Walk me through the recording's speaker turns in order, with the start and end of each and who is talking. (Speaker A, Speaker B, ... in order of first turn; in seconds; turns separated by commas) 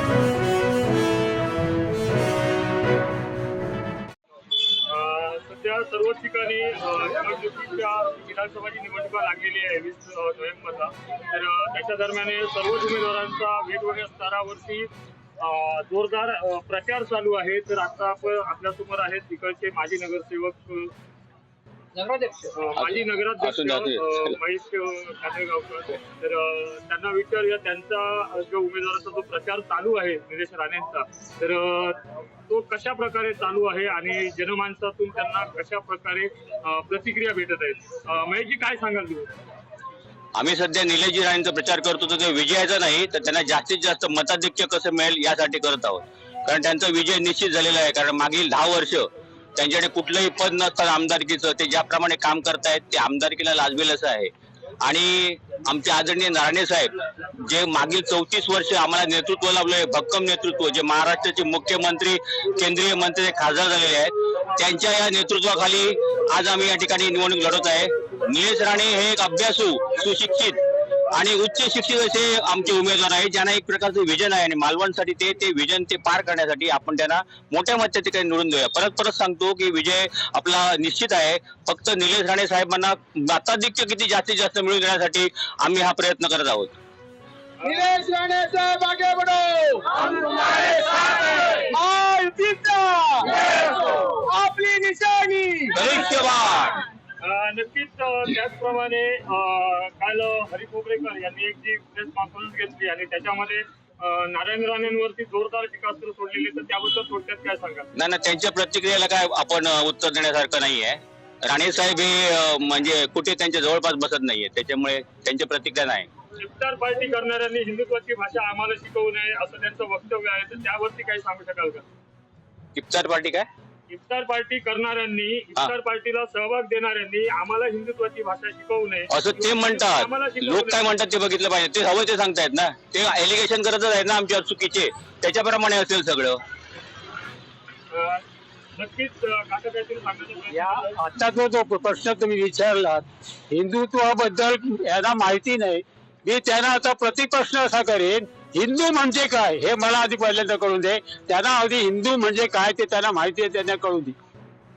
Speaker A: 4.8-20.9, Speaker A: 21.9-39.3, Speaker B: 22.8-24.4, Speaker B: 40.3-54.3, Speaker B: 54.8-70.6, Speaker B: 71.1-86.7, Speaker C: 87.6-96.1, Speaker B: 95.7-96.8, Speaker A: 97.2-107.9, Speaker B: 108.0-116.1, Speaker A: 116.4-121.8, Speaker B: 122.7-123.5, Speaker A: 123.9-130.9, Speaker B: 129.1-136.4, Speaker A: 137.9-138.2, Speaker A: 138.8-140.9, Speaker C: 140.5-154.2